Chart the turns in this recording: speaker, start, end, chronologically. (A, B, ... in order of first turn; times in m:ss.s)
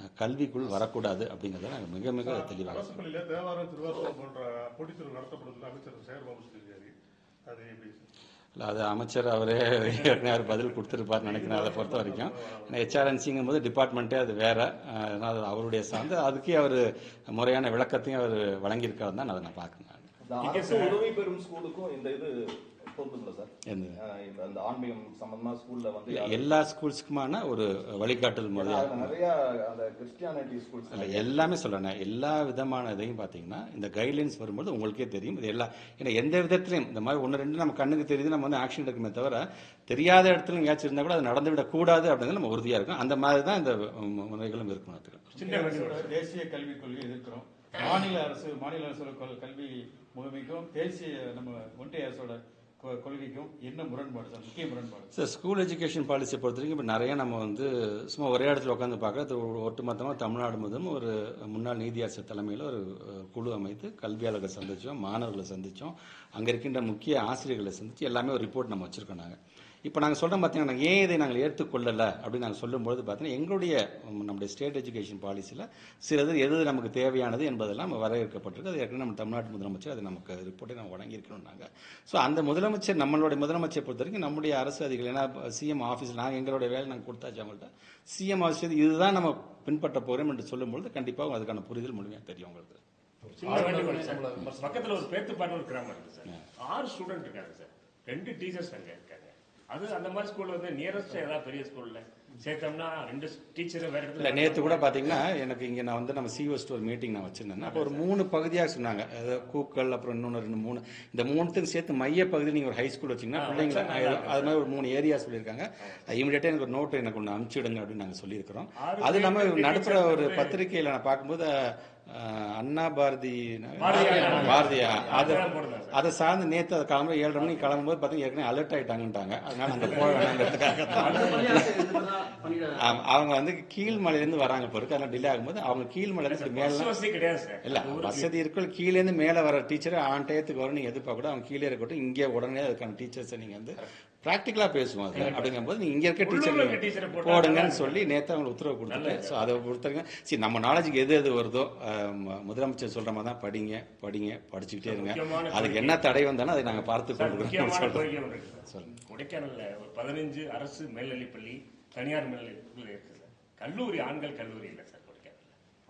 0:00.2-0:03.0 A
0:02.3-0:06.9 B
0:07.5-0:08.1 B
0:08.6-0:20.1 A
0:11.1-0:13.0 B
0:20.2-0:26.5 C
0:20.4-0:21.0 D
0:23.7-0:24.0 A
0:26.1-0:29.1 A
0:28.5-0:31.4 C
0:30.9-0:45.4 A
0:45.4-0:46.1 D
0:45.4-0:55.1 E
0:55.1-1:32.8 A
1:33.4-1:45.2 D
1:33.8-1:34.2 E
1:44.2-2:11.8 A
1:47.6-1:48.1 D
1:53.3-1:54.6 D
1:58.8-2:00.6 D
2:03.8-2:06.0 D
2:03.9-2:04.9 E
2:10.0-2:11.6 D
2:11.0-2:13.0 E
2:12.8-2:16.9 A
2:16.2-2:18.3 D
2:17.6-2:38.1 A
2:25.1-2:25.6 D
2:26.2-2:28.0 D
2:28.9-2:29.4 D
2:34.8-2:36.2 D
2:37.1-2:45.5 D
2:38.6-2:39.0 A